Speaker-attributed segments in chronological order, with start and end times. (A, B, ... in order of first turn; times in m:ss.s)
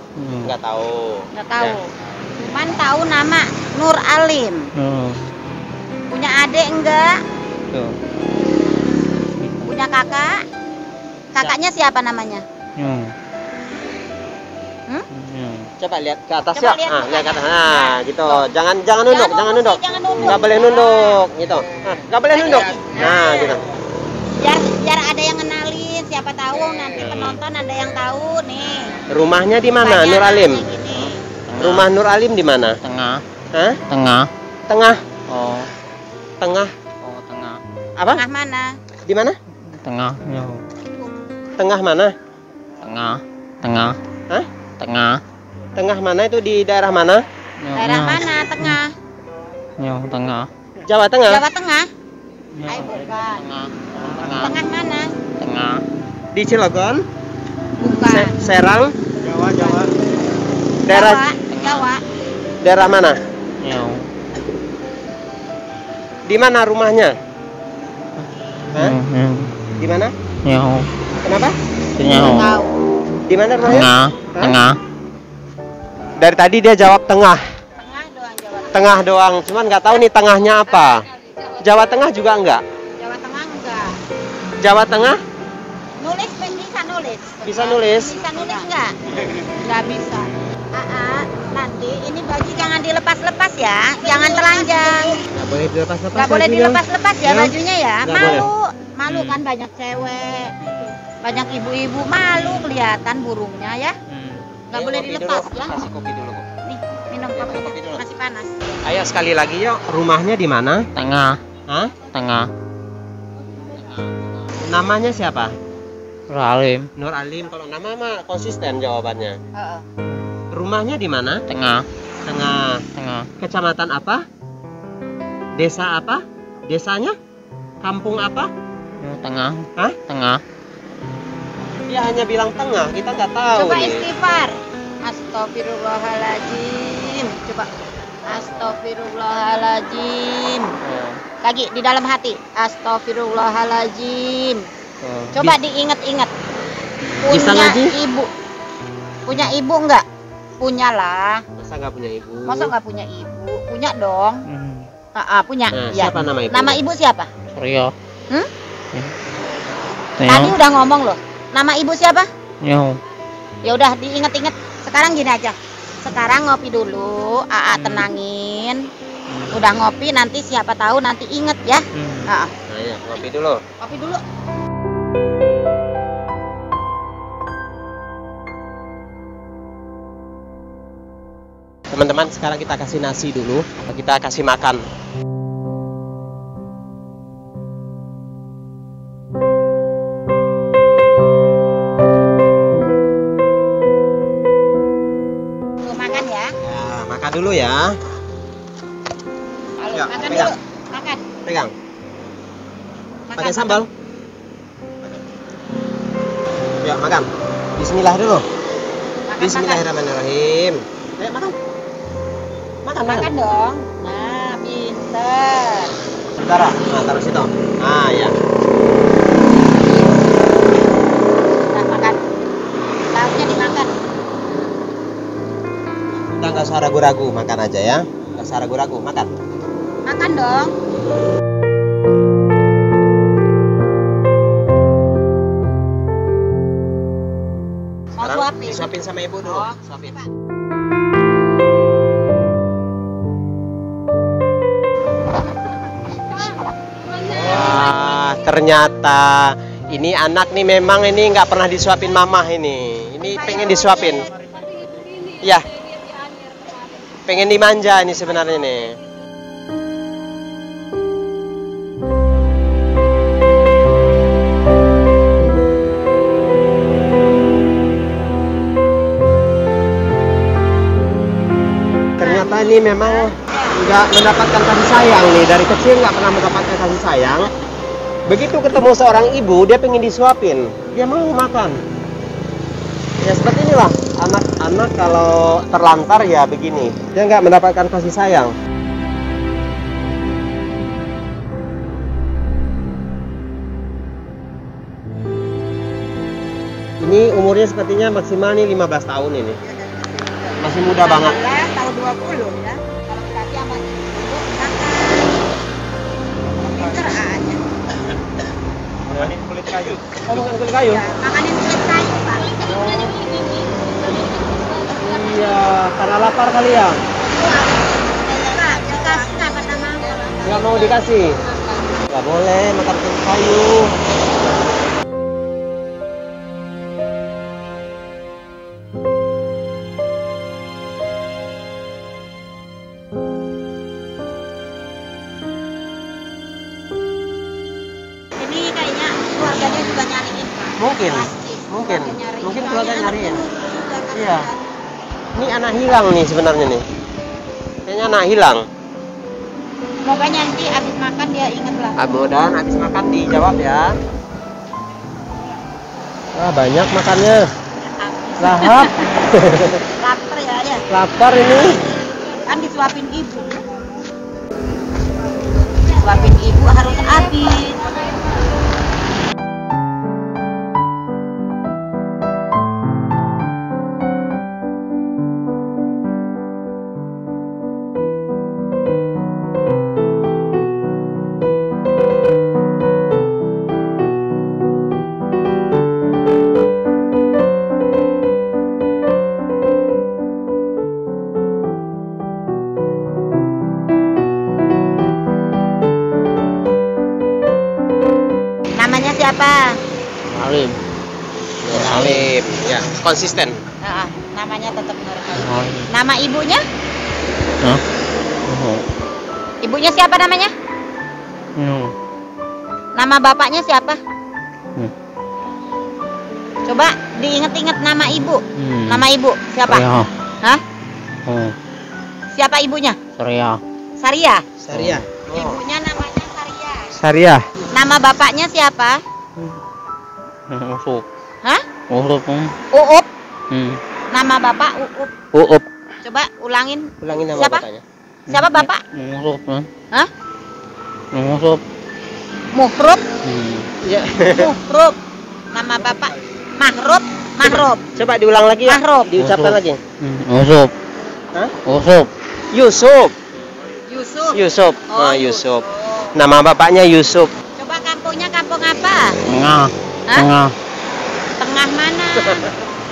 0:00.2-0:00.5 A
0:00.4-0:01.8 B
0:01.3-0:04.7 C
0:04.8-0:05.2 A
0:06.1-0:07.2 C
0:07.7-0:08.0 A
0:09.6-0:10.4 C
0:11.4-0:12.4 C
0:12.8-0:13.1 A
0:15.1-0:15.7 A
0:15.8-0:23.6 B
0:16.5-0:18.5 C
0:19.1-0:21.2 C
0:22.3-0:23.6 C
0:24.4-0:28.9 C
0:27.0-0:27.4 A
0:29.1-0:30.7 B
0:29.8-0:31.2 C
0:30.9-0:31.9 A
0:31.6-0:32.8 B
0:32.8-0:33.2 A
0:33.5-0:33.8 B
0:33.9-0:34.3 A
0:34.7-0:35.0 B
0:35.3-0:35.7 A
0:36.4-0:36.7 B
0:37.0-0:37.6 A
0:38.0-0:38.2 B
0:38.1-0:38.7 C
0:39.1-0:39.4 B
0:39.7-0:40.6 A
0:41.6-0:42.1 B
0:42.8-0:44.0 A
0:44.8-0:45.2 A
0:45.8-0:47.2 B
0:47.6-0:48.8 A
0:47.8-0:48.9 C
0:49.8-0:50.5 A
0:50.8-0:51.4 B
0:51.3-0:51.9 C
0:52.6-0:54.6 A
0:52.6-0:53.4 C
0:54.3-0:55.1 C
0:55.4-0:55.8 A
0:56.3-0:57.0 B
0:57.8-0:58.4 C
0:57.9-0:59.9 B
1:00.9-1:01.2 B
1:00.9-1:02.0 C
1:01.6-1:01.9 A
1:02.6-1:03.2 B
1:03.6-1:04.1 A
1:06.3-1:07.2 B
1:08.2-1:09.6 A
1:09.8-1:10.1 B
1:10.4-1:10.9 A
1:11.2-1:11.6 B
1:12.0-1:12.5 A
1:12.0-1:12.7 C
1:13.3-1:14.6 B
1:13.7-1:14.8 A
1:16.2-1:17.4 B
1:17.8-1:18.9 C
1:18.7-1:21.1 B
1:21.6-1:22.6 B
1:23.0-1:24.0 C
1:24.6-1:25.2 B
1:26.0-1:35.2 C
1:27.4-1:28.2 B
1:35.2-1:38.5 B
1:36.2-1:40.7 C
1:38.2-1:38.5 A
1:39.1-1:39.4 A
1:41.2-1:44.0 C
1:42.4-1:42.6 A
1:44.1-1:44.5 A
1:44.7-1:45.8 C
1:44.7-1:46.5 B
1:46.6-1:48.5 C
1:47.4-1:48.0 B
1:48.8-1:50.9 B
1:51.0-1:51.4 A
1:51.7-1:52.0 B
1:52.1-1:52.5 A
1:54.6-1:55.6 B
1:56.3-1:56.9 A
1:57.0-1:59.4 B
1:59.6-1:59.9 C
2:00.5-2:01.4 B
2:01.5-2:01.9 A
2:02.3-2:02.8 B
2:03.0-2:03.3 A
2:03.4-2:04.2 B
2:05.6-2:07.2 B
2:07.8-2:08.5 B
2:09.0-2:10.4 A
2:11.9-2:14.1 B
2:13.5-2:17.7 C
2:18.3-2:20.7 C
2:20.8-2:21.2 A
2:21.4-2:24.6 C
2:25.0-2:25.4 A
2:25.4-2:26.3 C
2:27.2-2:28.3 C
2:27.3-2:28.0 B
2:29.3-2:30.0 C
2:30.6-2:31.4 C
2:31.6-2:32.7 B
2:32.5-2:34.4 C
2:34.5-2:34.9 A
2:35.2-2:37.3 C
2:35.7-2:36.8 B
2:37.6-2:37.9 A
2:40.2-2:40.6 A
2:40.3-2:42.3 C
2:42.6-2:43.0 A
2:43.6-2:48.9 C
2:47.8-2:48.1 A
2:49.5-2:52.5 C
2:52.0-2:52.3 A
2:52.7-2:53.6 B
2:53.8-2:54.2 C
3:01.9-3:04.8 B
3:15.8-3:16.5 C
3:16.6-3:18.0 B
3:19.8-3:21.2 C
3:19.9-3:20.5 B
3:21.4-3:21.7 B
3:23.3-3:23.8 C
3:23.4-3:23.9 B
3:26.8-3:28.5 B
3:29.3-3:29.8 C
3:29.4-3:31.6 B
3:32.8-3:33.3 B
3:33.0-3:35.9 C
3:36.4-3:38.4 B
3:41.7-3:42.2 C
3:43.1-3:43.9 C
3:46.3-3:49.3 B
3:50.1-3:50.7 C
3:58.2-4:00.2 C
3:58.2-4:00.1 B
4:07.2-4:14.3 B
4:13.3-4:13.9 C
4:15.4-4:15.7 B
4:17.2-4:19.0 B
4:32.2-4:37.5 B
4:32.2-4:33.8 C
4:38.3-4:41.8 B
4:43.2-4:48.5 B
4:57.0-4:59.6 B
5:00.5-5:05.4 C
5:00.6-5:01.4 B
5:06.5-5:07.6 C
5:09.1-5:11.1 B
5:10.9-5:12.8 C
5:12.6-5:13.3 B
5:14.9-5:17.0 B
5:17.2-5:20.9 C
5:20.4-5:21.4 B
5:22.1-5:24.0 B
5:38.4-5:44.6 C
5:40.8-5:43.4 B
5:44.1-5:44.5 B
5:45.4-5:46.8 B
5:47.9-5:48.7 B
5:50.0-5:52.1 C
5:52.0-5:54.0 B
5:56.4-5:57.5 B
5:57.8-5:59.1 C
5:58.4-5:59.8 B
5:59.8-6:00.8 C
6:00.9-6:01.8 B
6:02.5-6:03.6 C
6:05.9-6:07.8 C
6:38.8-6:39.8 C
6:40.3-6:40.8 A
6:41.6-6:43.6 B
6:41.7-6:42.3 A
6:43.8-6:46.6 C
6:45.4-6:45.9 A
6:48.5-6:48.8 A
6:49.6-6:50.5 C
6:51.6-6:51.9 A
6:53.0-6:54.0 C
6:56.7-6:59.9 C
6:58.6-6:59.1 A
6:59.7-7:00.1 A
7:01.3-7:01.6 A
7:02.3-7:03.0 C
7:03.2-7:03.6 A
7:04.0-7:04.4 C
7:04.6-7:05.6 B
7:04.7-7:05.0 A
7:05.3-7:06.9 C
7:07.0-7:07.4 B
7:07.7-7:09.0 C
7:10.5-7:11.0 A
7:11.9-7:12.6 A
7:12.7-7:13.1 C
7:13.5-7:13.8 A
7:14.1-7:15.1 C
7:15.4-7:15.6 A
7:16.0-7:17.6 C
7:17.0-7:17.8 B
7:18.3-7:19.7 A
7:18.3-7:18.8 C
7:21.1-7:21.6 A
7:22.5-7:23.0 C
7:23.2-7:23.7 A
7:23.8-7:24.6 B
7:24.2-7:25.0 C
7:25.5-7:27.8 C
7:27.5-7:29.8 B
7:28.6-7:29.1 C
7:29.2-7:30.7 A
7:31.7-7:32.1 A
7:32.5-7:33.2 B
7:33.9-7:36.2 C
7:34.3-7:37.3 B
7:37.6-7:39.2 C
7:39.2-7:40.6 A
7:41.4-7:42.5 C
7:42.2-7:42.5 B